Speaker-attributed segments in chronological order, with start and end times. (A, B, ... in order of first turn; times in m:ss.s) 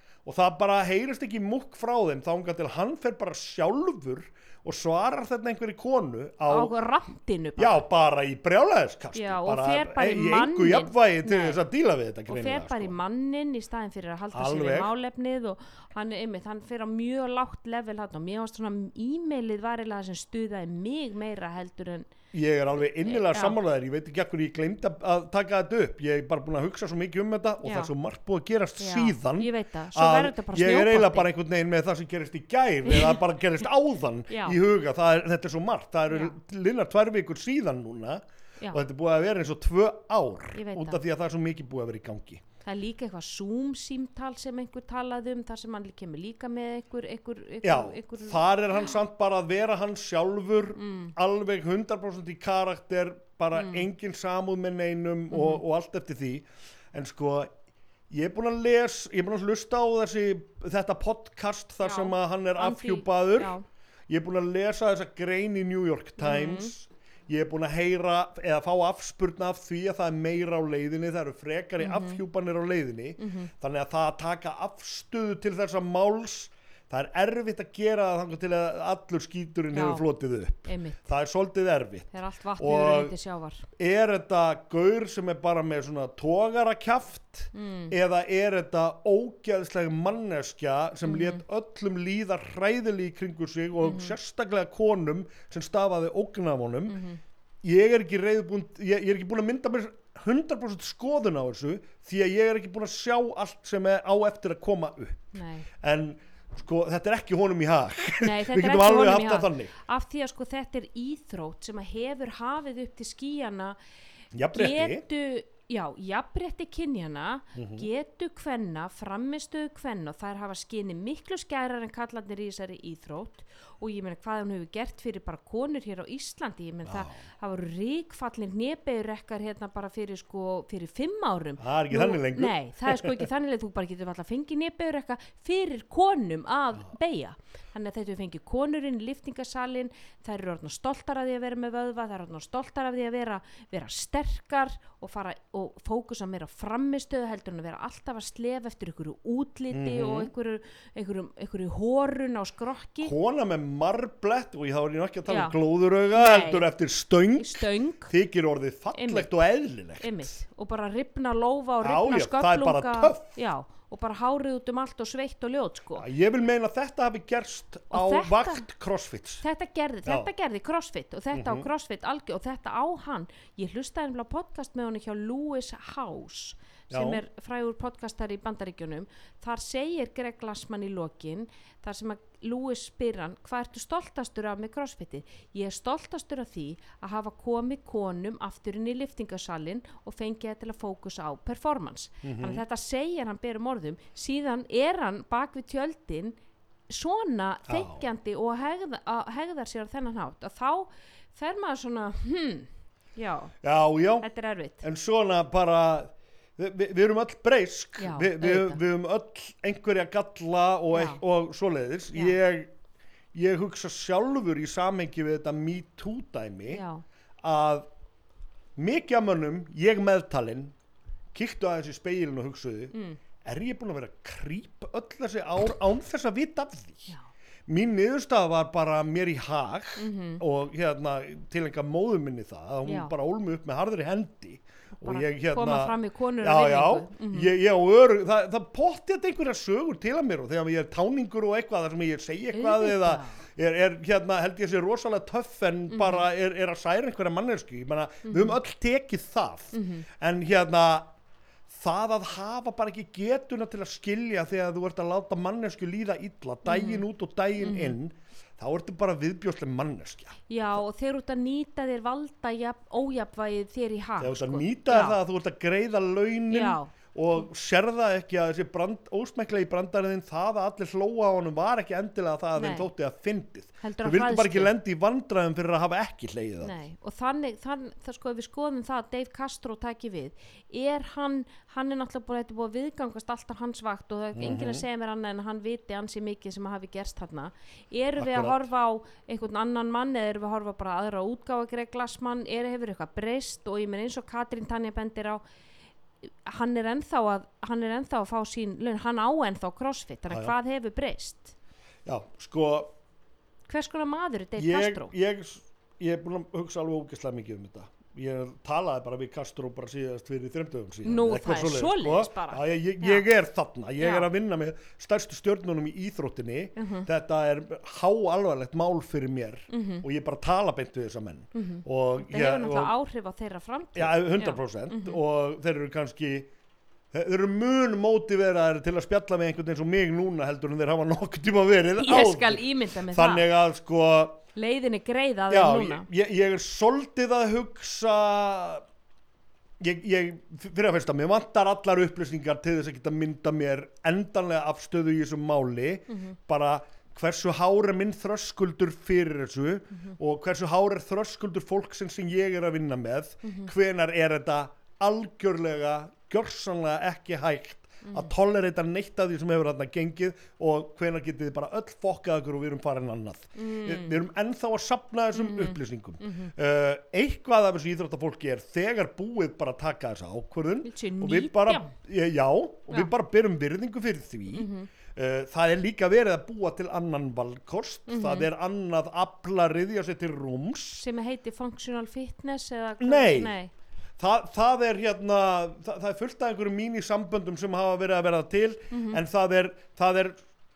0:00.2-0:06.7 A
0:06.5-0:07.8 B
0:07.6-0:13.0 A
0:09.1-0:11.6 B
0:12.3-0:22.1 B
0:14.3-0:14.9 A
0:22.3-0:42.4 A
0:23.0-0:23.6 B
0:27.6-0:27.9 B
0:28.8-0:31.3 B
0:32.9-0:33.2 B
0:34.3-0:34.6 B
0:36.1-0:36.4 B
0:40.5-0:41.0 B
0:42.6-0:48.4 B
0:47.6-0:57.5 A
0:50.8-0:51.1 B
0:53.5-0:53.8 B
0:55.3-0:55.6 B
0:58.1-1:03.5 A
1:01.8-1:03.6 B
1:04.1-1:23.1 A
1:06.2-1:06.7 B
1:11.8-1:12.2 B
1:13.2-1:13.5 B
1:19.7-1:20.0 B
1:20.7-1:21.1 B
1:22.1-1:23.6 B
1:23.8-1:37.0 A
1:27.5-1:27.9 B
1:31.0-1:31.4 B
1:33.8-1:34.1 B
1:36.9-1:37.2 B
1:37.6-1:49.7 A
1:45.3-1:45.7 B
1:48.2-1:53.8 B
1:54.3-1:55.0 A
1:54.5-2:33.1 B
1:57.5-1:57.9 A
2:06.8-2:07.2 A
2:11.6-2:13.2 A
2:29.7-2:30.3 A
2:33.0-2:40.3 A
2:35.3-2:35.6 B
2:36.1-2:36.7 B
2:37.4-2:38.1 B
2:38.9-2:39.3 B
2:40.0-2:46.0 B
2:41.8-2:43.3 A
2:46.0-2:49.4 A
2:47.9-2:48.6 B
2:49.4-3:16.4 B
2:51.3-2:51.7 A
2:56.9-2:57.2 A
3:12.2-3:12.6 A
3:16.9-3:23.5 B
3:17.7-3:18.0 A
3:23.6-3:24.3 A
3:24.2-3:24.8 B
3:24.8-3:32.7 A
3:28.0-3:28.8 B
3:30.9-3:31.2 B
3:33.3-3:36.8 A
3:36.7-3:37.0 B
3:37.4-3:37.9 A
3:38.8-3:40.7 A
3:41.3-3:47.1 A
3:42.9-3:43.2 B
3:47.7-4:11.1 A
3:50.0-3:50.4 B
3:52.8-3:53.1 B
3:55.0-3:57.5 B
4:02.5-4:03.4 B
4:05.9-4:06.2 B
4:08.2-4:08.6 B
4:09.7-4:10.1 B
4:11.7-4:20.4 A
4:16.6-4:17.0 B
4:17.6-4:17.9 B
4:20.5-4:25.2 B
4:24.2-4:36.8 A
4:26.5-4:27.4 B
4:32.6-4:32.9 B
4:33.8-4:34.7 B
4:36.6-4:55.4 B
4:44.3-4:44.8 A
4:48.2-4:48.6 A
4:56.2-5:01.5 B
5:02.0-5:02.9 A
5:03.7-5:05.1 B
5:04.6-5:22.9 A
5:11.0-5:13.2 B
5:14.0-5:14.3 B
5:16.8-5:17.1 B
5:19.7-5:20.0 B
5:21.5-5:25.2 B
5:23.9-5:26.5 A
5:27.1-5:34.4 A
5:32.0-5:33.5 B
5:34.5-5:36.0 B
5:35.5-5:38.8 A
5:39.8-6:21.0 A
5:46.1-5:46.4 B
5:53.4-5:53.7 B
5:58.0-5:58.3 B
6:03.6-6:04.2 B
6:05.3-6:06.5 B
6:10.8-6:11.9 B
6:14.5-6:14.9 B
6:18.1-6:18.5 B
6:21.0-6:23.7 B
6:23.0-6:23.6 A
6:24.2-6:30.4 A
6:28.9-6:29.2 B